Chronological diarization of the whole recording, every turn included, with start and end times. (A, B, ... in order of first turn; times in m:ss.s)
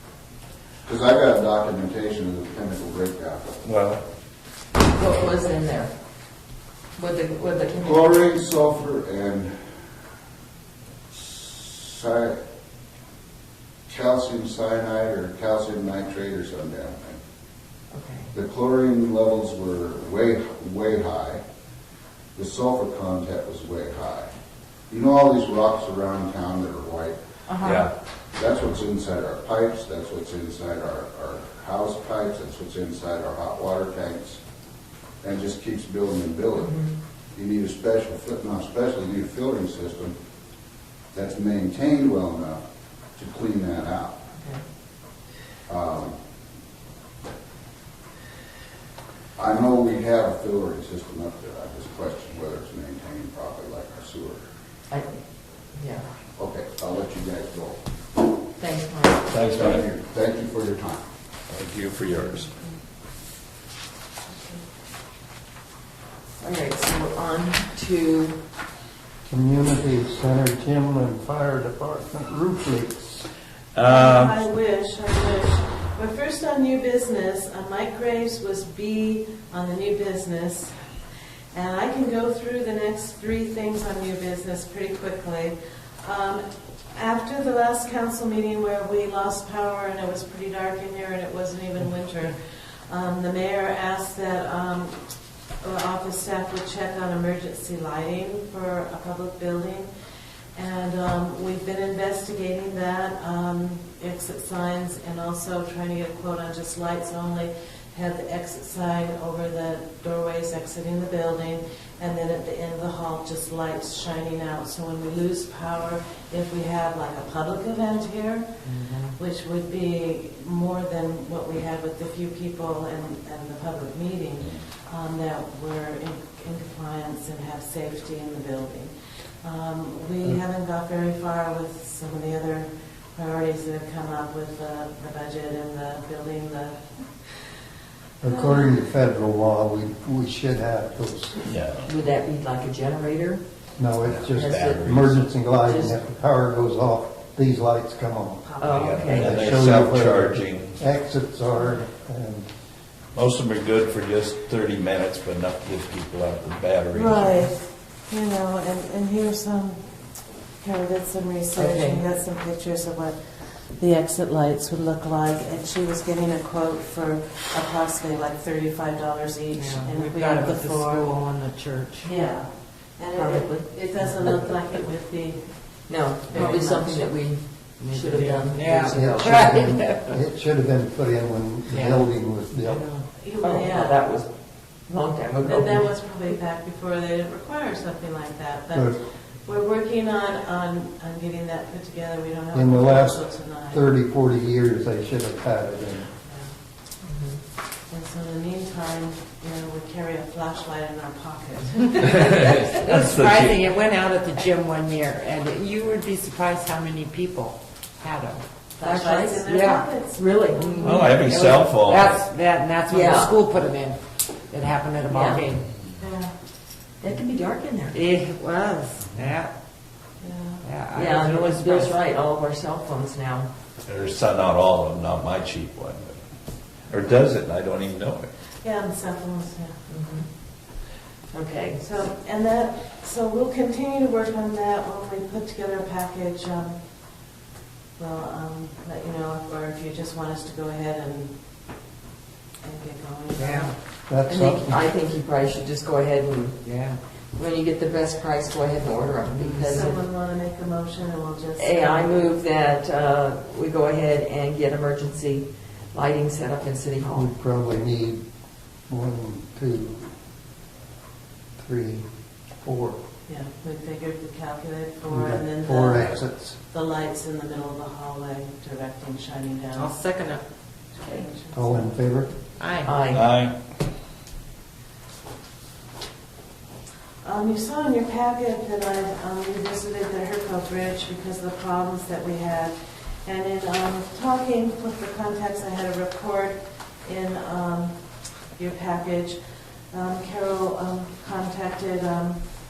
0:00.8-0:03.6 A
0:03.6-0:04.0 B
0:04.8-0:05.9 C
0:07.0-0:08.2 C
0:07.8-0:09.6 A
0:11.1-0:12.4 A
0:13.9-0:17.2 A
0:17.9-0:18.3 C
0:18.3-0:21.4 A
0:22.3-0:24.3 A
0:24.9-0:27.2 A
0:27.5-0:27.9 C
0:27.6-0:27.9 B
0:28.4-0:34.4 A
0:35.2-0:36.8 A
0:36.6-0:36.9 C
0:37.3-0:40.1 A
0:41.1-0:42.6 A
0:43.2-0:44.2 A
0:44.4-0:44.6 C
0:45.7-0:46.1 A
0:49.4-0:54.4 A
0:54.9-0:55.2 C
0:55.7-0:56.1 C
0:56.4-0:57.8 A
0:58.6-0:59.3 C
0:59.3-0:59.8 B
0:59.4-1:01.0 A
1:01.5-1:02.5 B
1:04.3-1:04.6 D
1:06.4-1:08.4 C
1:09.3-1:13.2 E
1:13.7-1:14.4 B
1:13.8-1:20.7 D
1:21.5-1:35.0 D
1:35.6-1:39.9 D
1:40.5-2:16.8 D
1:58.8-1:59.1 F
2:18.2-2:21.4 E
2:18.2-2:18.9 D
2:21.4-2:21.9 B
2:21.8-2:23.4 C
2:23.8-2:28.4 E
2:24.0-2:25.2 B
2:24.3-2:24.8 C
2:25.6-2:26.0 C
2:28.4-2:29.0 D
2:28.6-2:29.6 C
2:28.7-2:30.8 B
2:29.1-2:32.5 E
2:33.1-2:37.5 B
2:36.9-2:39.8 D
2:40.6-2:51.1 D
2:41.6-2:42.0 C
2:49.5-2:52.1 F
2:52.0-2:57.3 D
2:53.1-2:53.7 C
2:55.9-2:59.4 C
2:56.3-2:56.7 F
2:57.8-3:00.2 F
2:58.9-3:02.9 E
3:01.7-3:02.1 F
3:02.6-3:03.0 F
3:03.1-3:04.1 D
3:03.4-3:04.3 C
3:04.8-3:05.9 C
3:05.4-3:13.9 D
3:08.7-3:09.0 E
3:12.5-3:16.1 E
3:16.2-3:16.5 D
3:17.0-3:17.4 C
3:17.9-3:22.7 D
3:22.2-3:23.6 B
3:22.8-3:29.9 F
3:28.8-3:31.3 D
3:28.8-3:31.1 C
3:30.8-3:32.3 B
3:31.2-3:35.6 F
3:32.9-3:33.4 C
3:35.1-3:35.4 C
3:36.0-3:36.3 D
3:37.0-3:38.0 C
3:37.9-3:39.5 F
3:40.2-3:40.6 D
3:40.6-3:41.9 F
3:40.9-3:43.5 C
3:43.9-3:46.1 B
3:46.9-3:48.3 B
3:48.6-3:49.9 D
3:49.9-3:50.2 C
3:51.3-3:51.8 C
3:51.8-3:56.8 D
3:58.0-4:01.4 D
4:02.6-4:03.7 D
4:03.3-4:03.7 F
4:04.1-4:04.8 E
4:04.2-4:06.6 C
4:06.6-4:07.0 F
4:07.3-4:10.0 C
4:09.4-4:10.0 F
4:09.7-4:12.4 D
4:11.6-4:17.3 C
4:17.0-4:18.2 E
4:18.9-4:20.1 E
4:21.6-4:22.0 E
4:22.6-4:23.0 E
4:23.3-4:30.0 D
4:25.1-4:26.6 E
4:29.8-4:30.4 F
4:30.9-4:31.9 D
4:31.5-4:32.3 E
4:32.6-4:32.9 F
4:32.8-4:33.2 C
4:33.1-4:33.5 B
4:37.2-4:48.0 D
4:48.5-4:49.4 D
4:49.9-4:52.4 D